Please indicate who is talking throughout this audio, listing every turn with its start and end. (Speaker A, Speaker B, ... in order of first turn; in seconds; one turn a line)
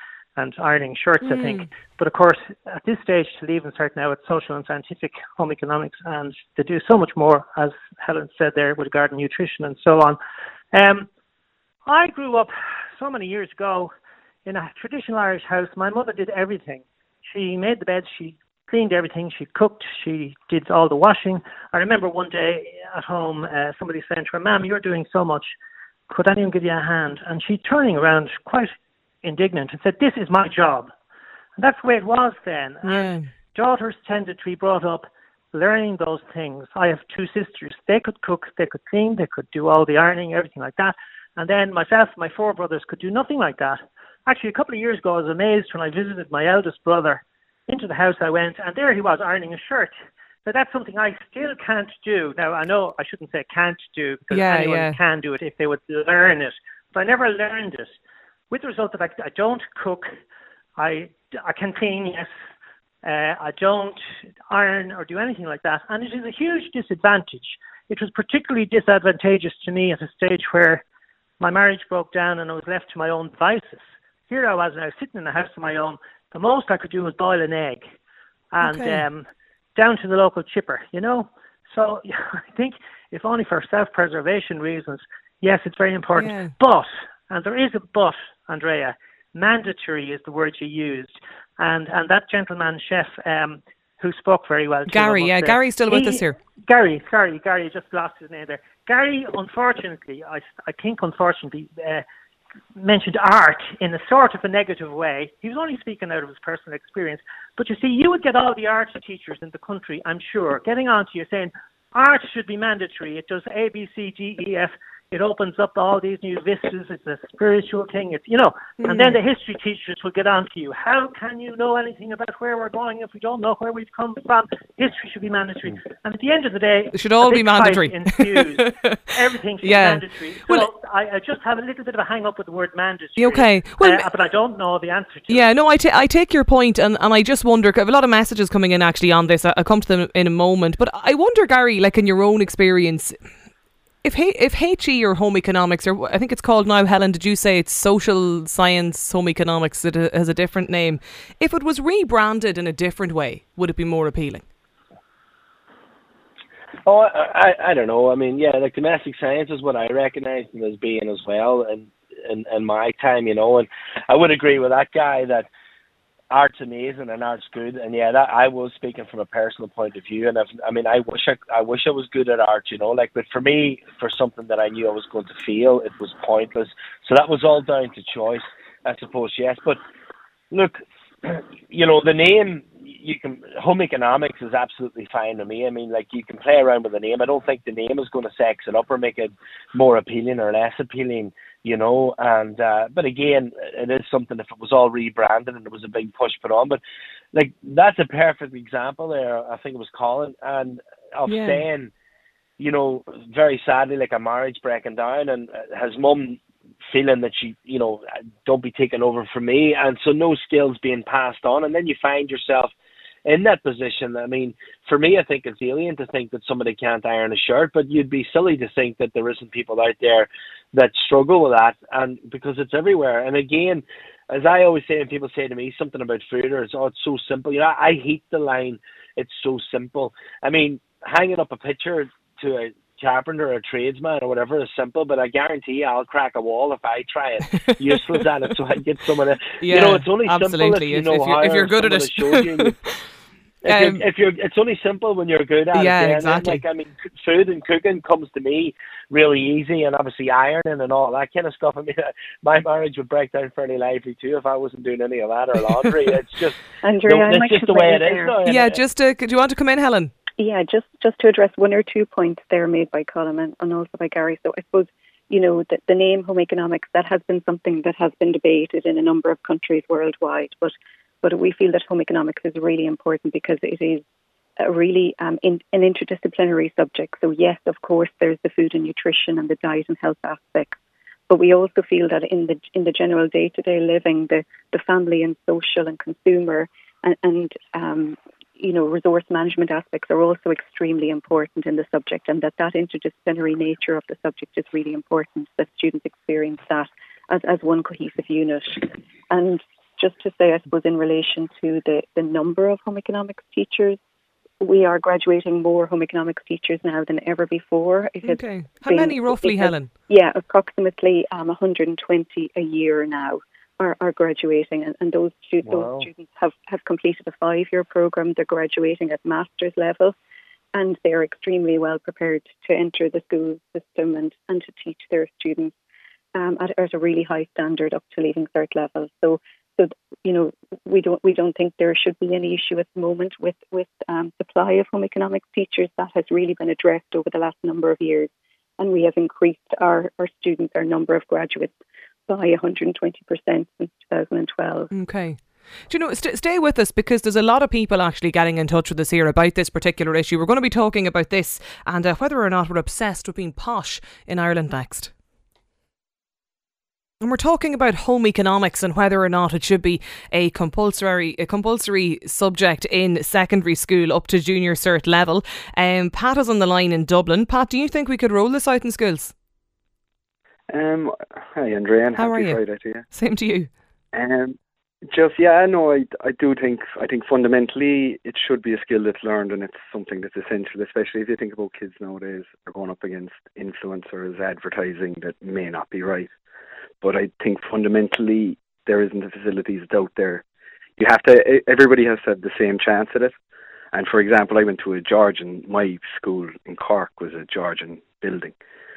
Speaker A: 0.3-10.2
Speaker B: 1.2-1.7
Speaker A: 10.7-11.1
Speaker A: 11.8-13.9
Speaker A: 14.4-25.5
Speaker A: 26.1-28.7
Speaker A: 29.2-30.9
Speaker A: 31.6-49.9
Speaker B: 32.8-33.2
Speaker A: 50.5-57.9
Speaker B: 54.3-55.0
Speaker A: 58.5-60.1
Speaker A: 60.8-62.3
Speaker A: 63.0-64.0
Speaker A: 64.5-70.8
Speaker A: 71.4-77.8
Speaker A: 78.5-102.0
Speaker B: 78.6-79.0
Speaker B: 86.2-86.5
Speaker B: 94.9-96.3
Speaker A: 102.8-135.5
Speaker B: 118.8-119.2
Speaker B: 126.9-129.0
Speaker B: 129.6-130.7
Speaker B: 133.2-134.1
Speaker B: 135.3-143.2
Speaker B: 144.0-154.4
Speaker C: 156.8-165.5
Speaker C: 166.3-179.8
Speaker C: 180.5-196.8
Speaker C: 197.3-201.9
Speaker B: 201.3-201.6
Speaker C: 202.6-212.7
Speaker C: 213.2-242.7
Speaker B: 239.6-242.9
Speaker B: 243.6-244.0
Speaker C: 243.6-258.8
Speaker B: 245.7-246.6
Speaker D: 256.8-258.4
Speaker B: 258.4-260.1
Speaker D: 260.4-274.0
Speaker D: 274.6-280.8
Speaker D: 281.3-304.0
Speaker D: 304.6-320.1
Speaker B: 308.2-309.9
Speaker C: 315.6-316.1
Speaker D: 320.7-325.7
Speaker D: 326.3-341.7
Speaker D: 342.3-344.9
Speaker B: 344.9-355.1
Speaker B: 357.2-369.3
Speaker E: 370.7-373.1
Speaker B: 372.1-373.7
Speaker E: 374.1-374.6
Speaker E: 375.1-386.3
Speaker E: 387.0-390.4
Speaker E: 391.0-393.3
Speaker E: 393.9-398.5